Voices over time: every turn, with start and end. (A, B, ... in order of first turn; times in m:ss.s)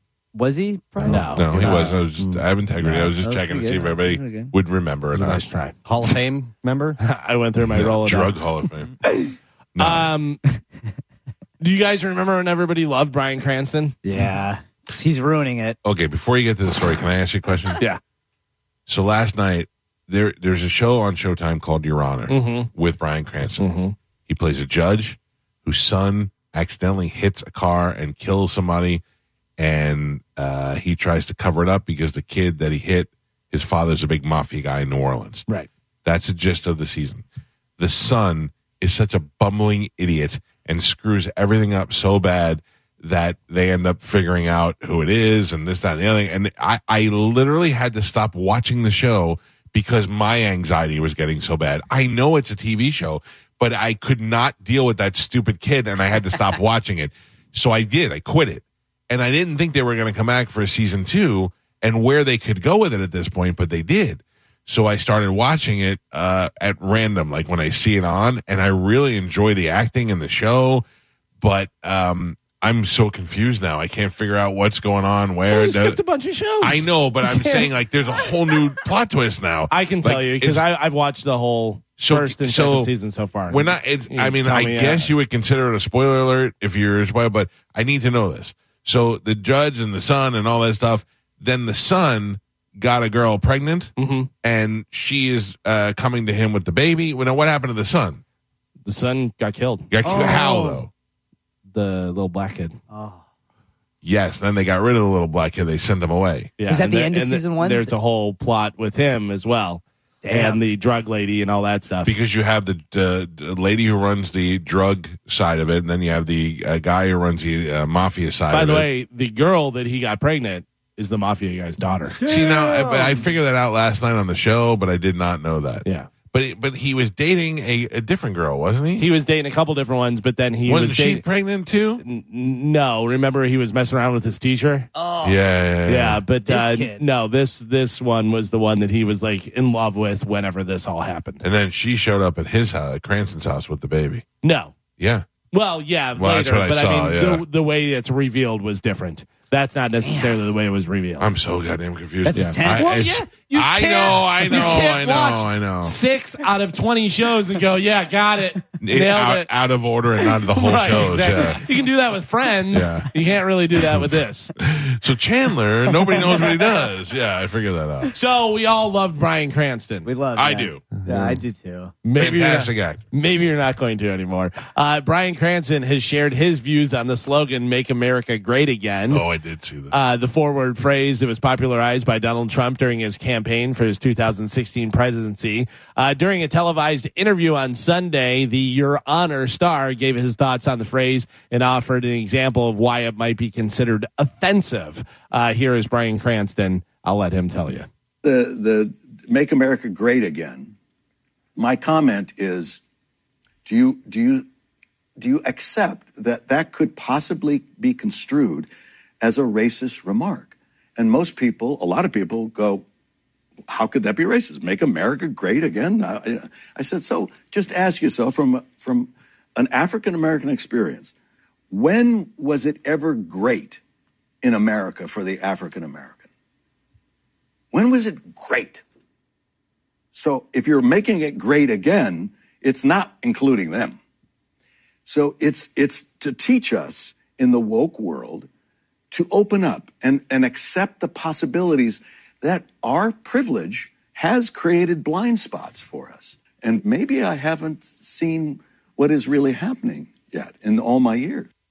0:00.3-0:01.9 A
0:01.0-0:01.8 B
0:01.0-0:02.4 C
0:01.1-0:05.4 D
0:02.9-0:04.5 A
0:05.1-0:05.8 B
0:05.8-0:07.0 C
0:07.0-0:08.5 B
0:07.7-0:08.9 D
0:09.8-0:10.1 D
0:09.8-0:10.4 B
0:11.6-0:14.0 B
0:14.0-0:15.8 A
0:15.8-0:17.8 D
0:18.9-0:23.7 D
0:22.3-0:22.7 B
0:23.6-0:23.9 B
0:24.3-0:29.0 D
0:29.6-0:35.4 D
0:36.0-0:37.2 D
0:37.8-1:10.8 D
1:11.4-1:16.0 D
1:15.5-1:17.7 B
1:16.6-1:20.6 D
1:19.7-1:25.1 B
1:22.0-1:22.9 D
1:23.5-1:38.2 D
1:34.0-1:34.3 B
1:38.8-1:39.9 B
1:39.9-1:40.9 D
1:40.0-1:40.8 A
1:41.7-1:42.8 B
1:42.9-1:43.2 A
1:44.0-1:46.5 D
1:46.6-1:52.2 B
1:46.7-1:47.9 A
1:50.2-1:50.6 A
1:52.0-1:58.9 D
1:58.5-2:02.2 B
2:02.2-2:09.1 D
2:02.2-2:03.0 A
2:05.8-2:06.1 B
2:09.0-2:11.2 B
2:10.6-2:12.0 D
2:12.0-2:14.9 B
2:14.9-2:15.4 A
2:15.2-2:16.2 D
2:15.9-2:21.4 B
2:16.5-2:17.0 A
2:21.4-2:24.2 D
2:24.4-2:24.8 B
2:25.0-2:25.3 D
2:25.5-2:31.3 B
2:26.2-2:27.4 D
2:30.0-2:30.4 A
2:31.2-2:36.0 D
2:32.2-2:33.0 A
2:32.3-2:39.5 B
2:38.8-2:41.6 D
2:40.5-2:44.5 B
2:42.7-2:43.1 D
2:43.9-2:48.1 D
2:48.1-2:50.1 B
2:50.0-2:51.9 A
2:50.3-2:50.8 D
2:51.0-2:51.4 B
2:52.0-2:59.2 B
2:52.2-2:53.0 D
2:59.1-2:59.9 D
2:59.9-3:17.9 B
3:18.2-3:20.7 E
3:21.6-3:22.8 E
3:23.6-3:24.4 E
3:25.2-3:28.7 E
3:29.2-3:32.8 E
3:33.7-3:41.1 E
3:41.7-3:43.8 E
3:44.4-3:46.2 E
3:47.7-3:48.8 E
3:50.1-3:54.0 E
3:55.0-3:58.5 E
3:59.1-4:11.5 E